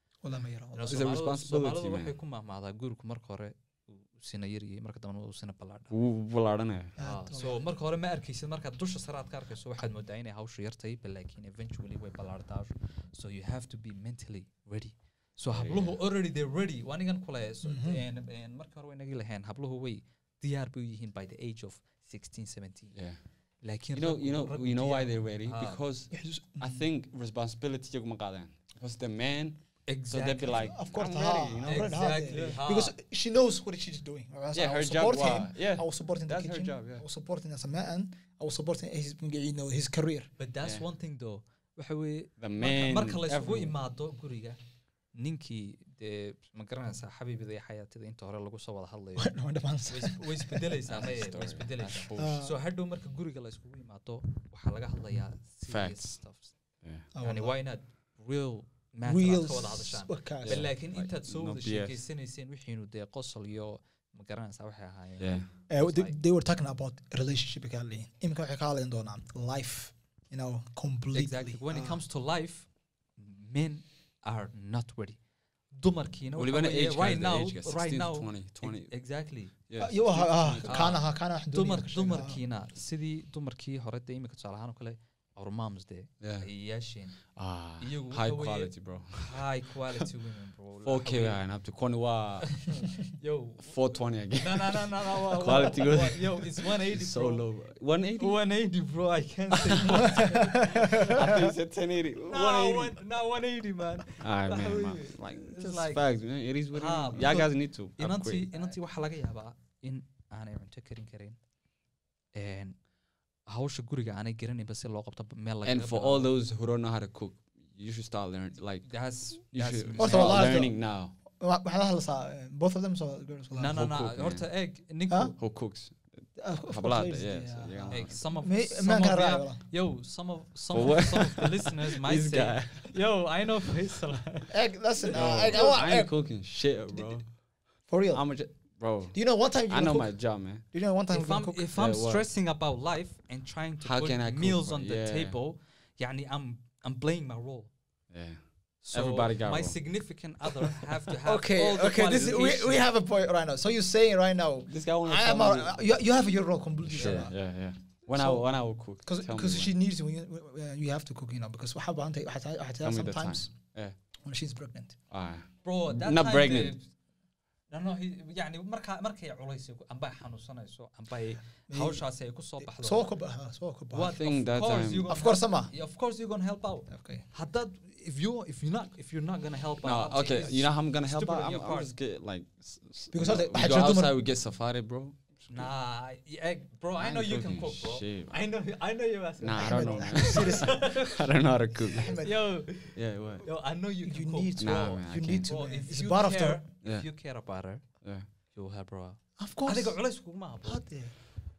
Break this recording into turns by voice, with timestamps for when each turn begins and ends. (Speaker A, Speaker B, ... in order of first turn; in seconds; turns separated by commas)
Speaker A: 0.2-1.0, Speaker B: 0.7-5.9, Speaker C: 0.9-2.1, Speaker C: 5.9-7.0, Speaker A: 7.0-7.6, Speaker B: 7.0-23.0, Speaker C: 15.5-16.0, Speaker A: 17.7-18.0, Speaker B: 23.6-25.8, Speaker C: 23.9-32.6, Speaker A: 26.1-26.9, Speaker B: 29.9-30.7, Speaker A: 30.6-40.3, Speaker B: 31.6-32.9, Speaker C: 34.5-37.0, Speaker B: 40.4-44.6, Speaker C: 42.4-43.8, Speaker B: 45.1-49.4, Speaker A: 49.2-50.7, Speaker B: 49.9-56.5, Speaker C: 50.9-52.4, Speaker A: 52.2-52.6, Speaker C: 55.7-56.2, Speaker C: 56.8-57.1, Speaker A: 57.1-57.5, Speaker B: 57.2-66.1, Speaker A: 59.0-60.7, Speaker C: 60.4-62.0, Speaker C: 65.2-65.5, Speaker A: 65.7-72.0, Speaker B: 71.1-75.2, Speaker B: 75.7-79.5, Speaker C: 76.3-78.9, Speaker C: 79.7-80.9, Speaker A: 79.8-82.4, Speaker B: 80.6-87.2, Speaker C: 86.2-86.5, Speaker C: 87.3-89.4, Speaker B: 87.8-91.4, Speaker C: 90.8-92.7, Speaker B: 92.4-93.8, Speaker C: 93.6-98.4, Speaker B: 94.4-97.4, Speaker B: 98.2-101.5, Speaker C: 99.6-100.0, Speaker A: 100.3-101.5, Speaker C: 101.1-103.0, Speaker B: 102.3-106.0, Speaker C: 104.2-108.5, Speaker B: 106.7-111.4, Speaker B: 112.3-112.8, Speaker B: 113.5-116.3, Speaker C: 115.6-121.1, Speaker B: 118.9-120.5, Speaker A: 120.0-120.8, Speaker A: 121.3-123.8, Speaker B: 123.5-125.3, Speaker C: 123.7-124.5, Speaker C: 125.4-128.2, Speaker A: 126.4-129.6, Speaker B: 127.9-134.5, Speaker C: 130.7-132.9, Speaker A: 134.5-136.1, Speaker C: 135.1-137.3, Speaker A: 137.9-138.2, Speaker C: 138.1-140.6, Speaker A: 139.1-140.1, Speaker A: 140.7-141.7, Speaker B: 141.1-147.7, Speaker C: 141.8-142.3, Speaker C: 143.8-145.4, Speaker C: 148.1-148.4, Speaker B: 148.8-152.8, Speaker C: 148.9-149.8, Speaker A: 151.2-157.3, Speaker C: 154.7-155.9, Speaker C: 156.9-159.7, Speaker A: 158.1-158.5, Speaker A: 159.1-163.5, Speaker C: 162.8-163.9, Speaker A: 164.2-165.0, Speaker C: 165.1-166.8, Speaker B: 165.6-166.9, Speaker B: 167.7-173.0, Speaker A: 171.7-172.0, Speaker A: 172.6-174.2, Speaker B: 173.9-181.9, Speaker C: 174.0-175.1, Speaker A: 175.1-175.7, Speaker A: 176.9-177.2, Speaker C: 179.8-185.7, Speaker A: 183.1-184.2, Speaker B: 185.5-191.3, Speaker C: 187.0-188.3, Speaker C: 189.4-192.2, Speaker A: 189.6-190.8, Speaker A: 191.9-192.3, Speaker B: 192.1-197.8, Speaker C: 192.9-193.4, Speaker A: 194.0-196.6, Speaker C: 194.6-195.5, Speaker B: 198.5-200.8, Speaker A: 199.4-200.0, Speaker A: 200.7-201.2